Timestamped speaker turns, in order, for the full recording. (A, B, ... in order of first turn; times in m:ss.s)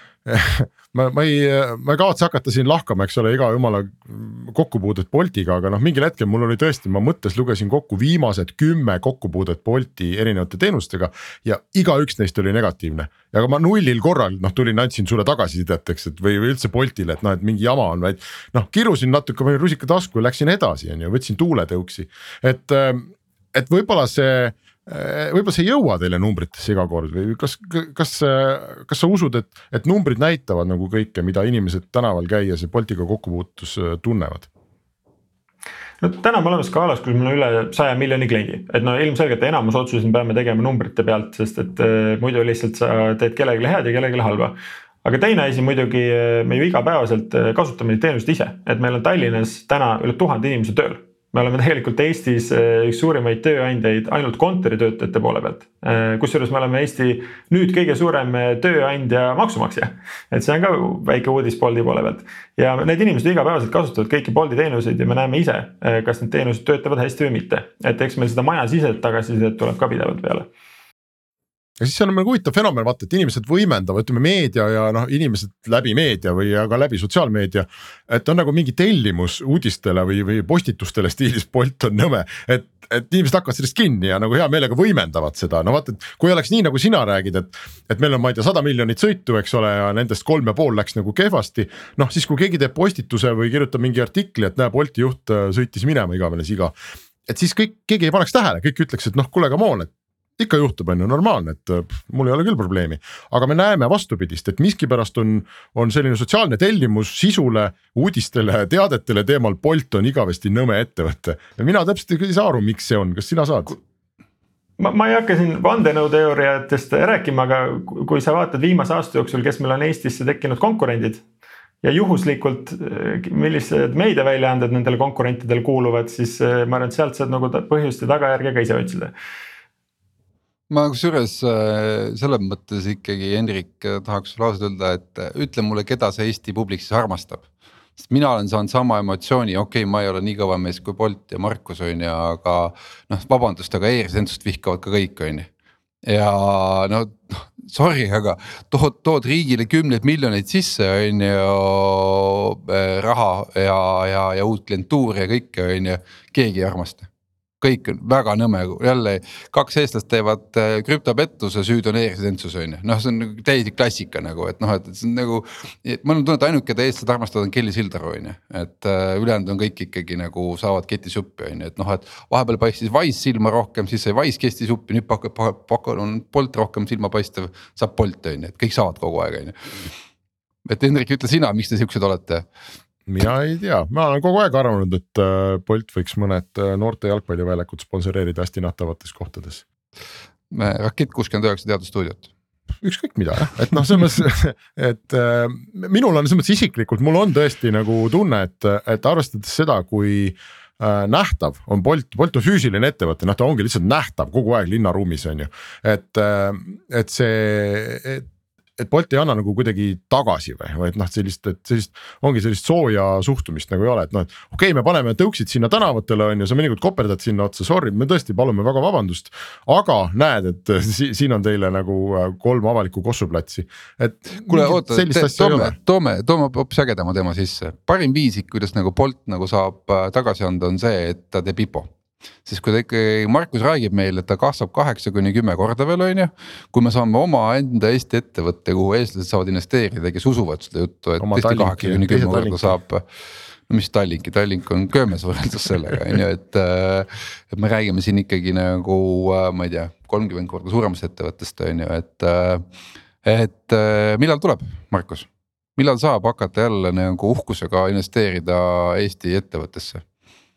0:00.3-0:34.5 A
0:36.0-1:10.5 B
1:11.8-1:53.8 A
1:54.8-2:01.2 B
2:01.8-2:09.1 B
2:10.7-2:17.5 C
2:18.0-2:25.5 C
2:26.1-2:37.1 C
2:37.6-2:59.9 C
3:00.6-3:02.5 C
3:03.1-3:09.6 A
3:10.5-3:12.3 C
3:12.8-3:28.2 A
3:28.8-3:45.8 A
3:44.4-3:51.9 C
3:52.5-4:03.0 C
4:01.2-4:02.8 A
4:03.7-4:12.6 C
4:13.2-4:20.0 C